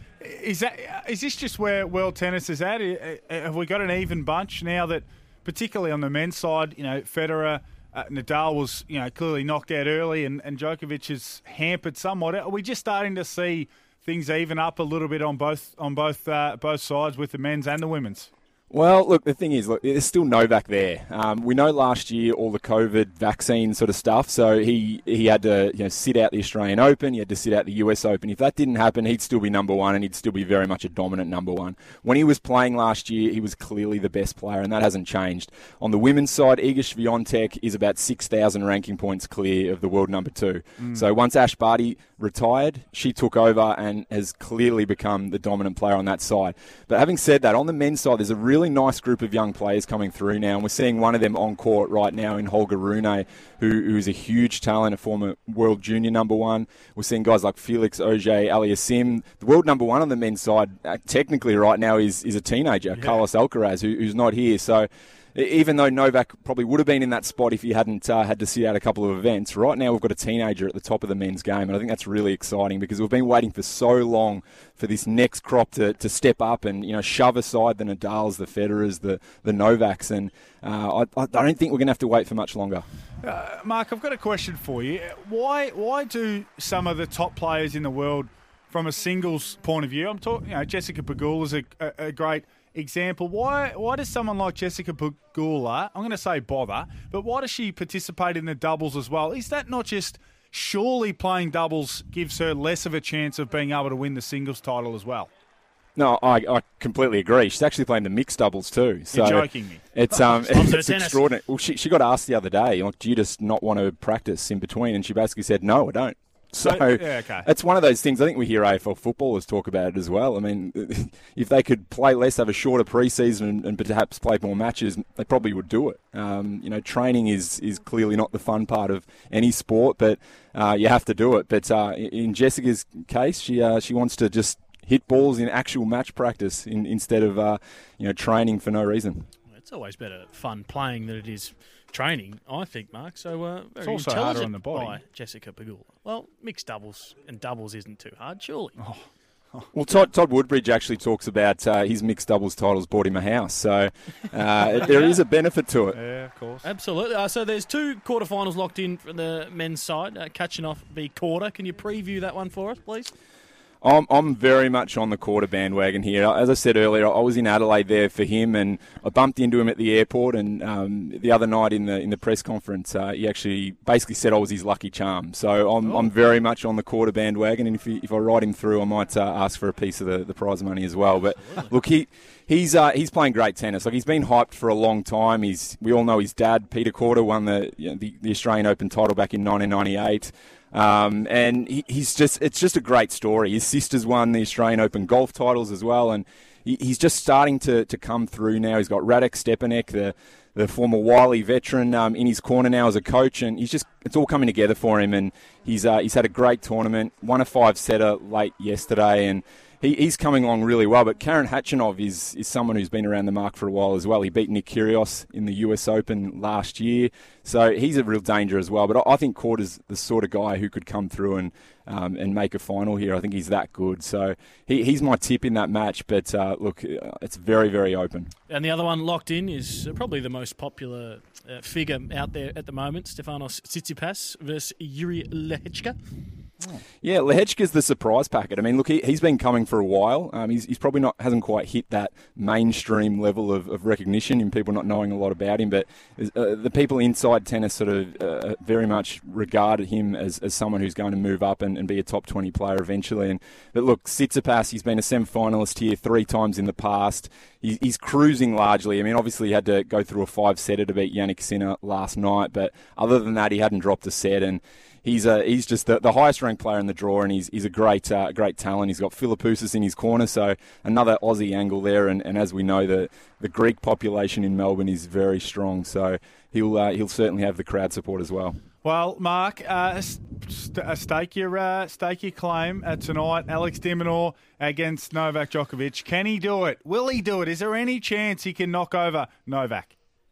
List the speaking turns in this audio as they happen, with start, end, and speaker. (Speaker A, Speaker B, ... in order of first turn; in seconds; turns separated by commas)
Speaker A: 0.2-18.3, Speaker B: 18.7-82.8, Speaker A: 40.8-41.1, Speaker A: 83.2-105.3, Speaker B: 106.0-139.3, Speaker A: 109.1-109.8, Speaker C: 110.1-111.2, Speaker A: 116.6-117.5, Speaker C: 139.5-148.8, Speaker A: 143.8-145.0, Speaker A: 148.8-149.7, Speaker B: 149.7-156.0, Speaker C: 154.7-155.2, Speaker A: 155.9-156.7, Speaker C: 156.6-163.1, Speaker B: 163.8-228.3, Speaker C: 181.4-181.7, Speaker C: 228.5-236.0, Speaker B: 237.0-278.6, Speaker A: 278.8-289.9